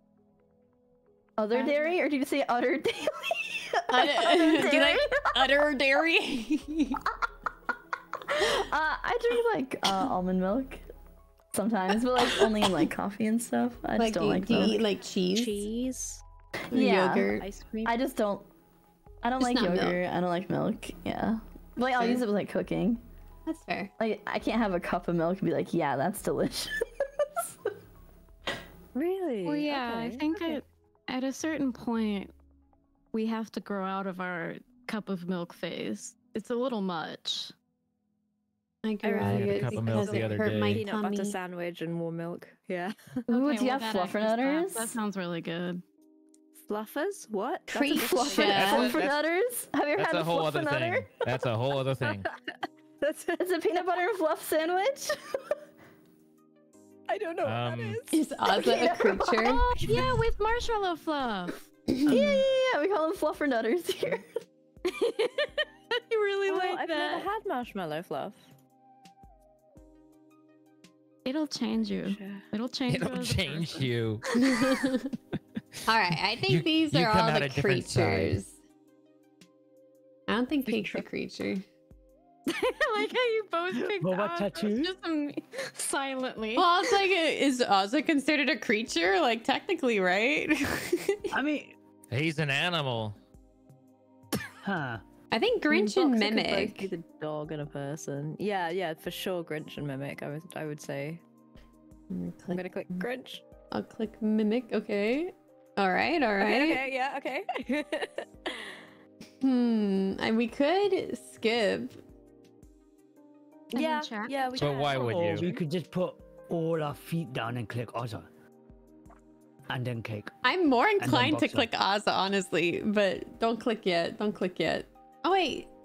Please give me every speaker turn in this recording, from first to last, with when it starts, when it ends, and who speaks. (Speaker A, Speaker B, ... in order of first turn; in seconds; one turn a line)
Speaker A: 1.4-5.6
Speaker B: 3.9-7.0
Speaker A: 8.3-10.8
Speaker A: 11.5-14.8
Speaker B: 14.0-15.7
Speaker C: 14.5-14.8
Speaker C: 15.3-18.0
Speaker A: 16.7-17.3
Speaker B: 16.7-17.4
Speaker A: 17.9-18.5
Speaker A: 19.2-23.0
Speaker B: 19.4-20.0
Speaker B: 21.9-22.2
Speaker B: 23.5-23.9
Speaker A: 24.0-27.5
Speaker C: 28.9-30.6
Speaker D: 29.4-32.3
Speaker D: 33.1-37.5
Speaker B: 38.8-41.4
Speaker C: 39.0-43.2
Speaker E: 39.2-40.9
Speaker A: 43.3-45.0
Speaker D: 43.3-45.8
Speaker C: 46.6-48.6
Speaker B: 47.7-49.0
Speaker A: 47.9-51.1
Speaker E: 48.5-49.2
Speaker E: 50.0-52.3
Speaker C: 52.1-52.4
Speaker C: 53.0-53.4
Speaker A: 53.4-55.4
Speaker C: 57.1-58.8
Speaker E: 57.4-58.0
Speaker B: 58.1-59.7
Speaker A: 58.5-59.7
Speaker D: 59.8-61.6
Speaker B: 61.9-62.4
Speaker A: 62.1-64.3
Speaker D: 64.9-67.3
Speaker C: 66.5-68.4
Speaker D: 71.2-73.9
Speaker C: 72.1-72.4
Speaker E: 72.9-74.2
Speaker B: 74.3-75.1
Speaker B: 75.9-78.6
Speaker E: 76.5-78.4
Speaker B: 80.3-81.6
Speaker C: 80.7-81.0
Speaker D: 82.5-86.7
Speaker F: 84.0-84.9
Speaker B: 86.6-91.2
Speaker F: 91.3-91.8
Speaker E: 92.1-93.2
Speaker F: 94.6-95.0
Speaker B: 95.3-96.9
Speaker C: 95.7-101.2
Speaker B: 102.1-103.1
Speaker C: 102.5-103.4
Speaker B: 103.7-106.8
Speaker C: 106.4-108.8
Speaker B: 109.4-112.0
Speaker D: 113.7-115.1
Speaker C: 113.7-115.6
Speaker E: 114.6-115.5
Speaker F: 115.0-118.3
Speaker F: 119.7-120.3
Speaker B: 120.4-125.7
Speaker F: 121.0-121.7